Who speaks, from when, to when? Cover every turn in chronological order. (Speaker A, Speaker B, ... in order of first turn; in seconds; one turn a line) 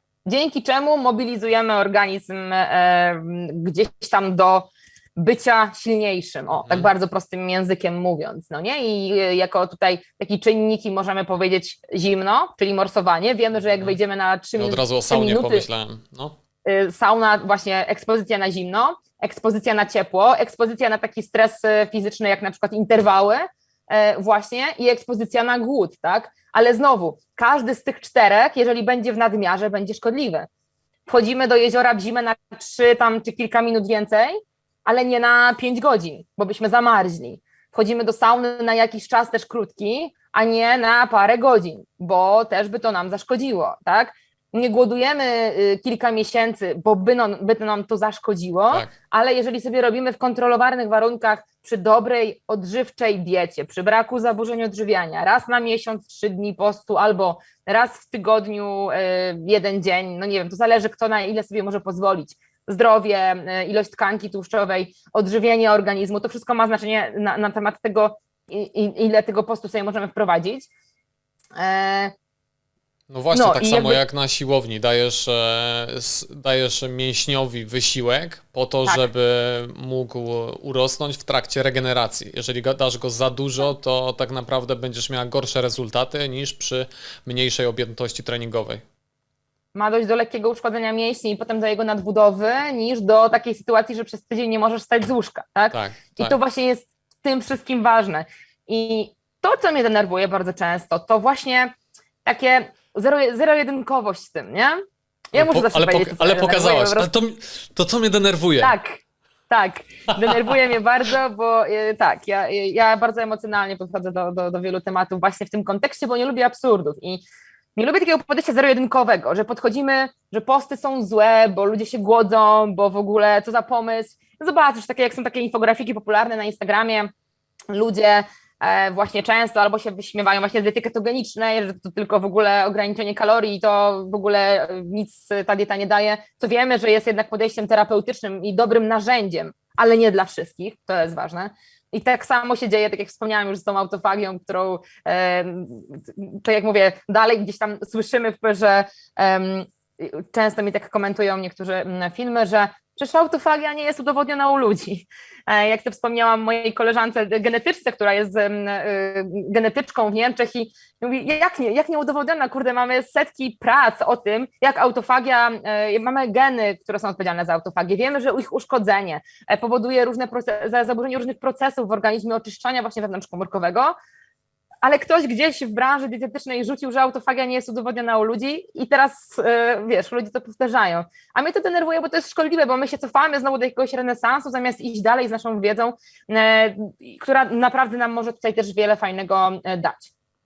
Speaker A: 0.2-15.7
Speaker B: 6.6-6.9
Speaker B: 14.6-16.4
Speaker A: 16.6-30.5
Speaker A: 31.1-70.7
Speaker A: 71.6-72.1
Speaker B: 73.1-88.8
Speaker A: 73.3-74.0
Speaker A: 89.7-101.7
Speaker B: 95.7-96.4
Speaker A: 102.2-104.8
Speaker A: 105.3-107.1
Speaker B: 105.3-108.8
Speaker A: 108.6-117.2
Speaker B: 110.3-110.6
Speaker A: 117.8-127.1
Speaker A: 127.7-173.9
Speaker A: 174.8-190.1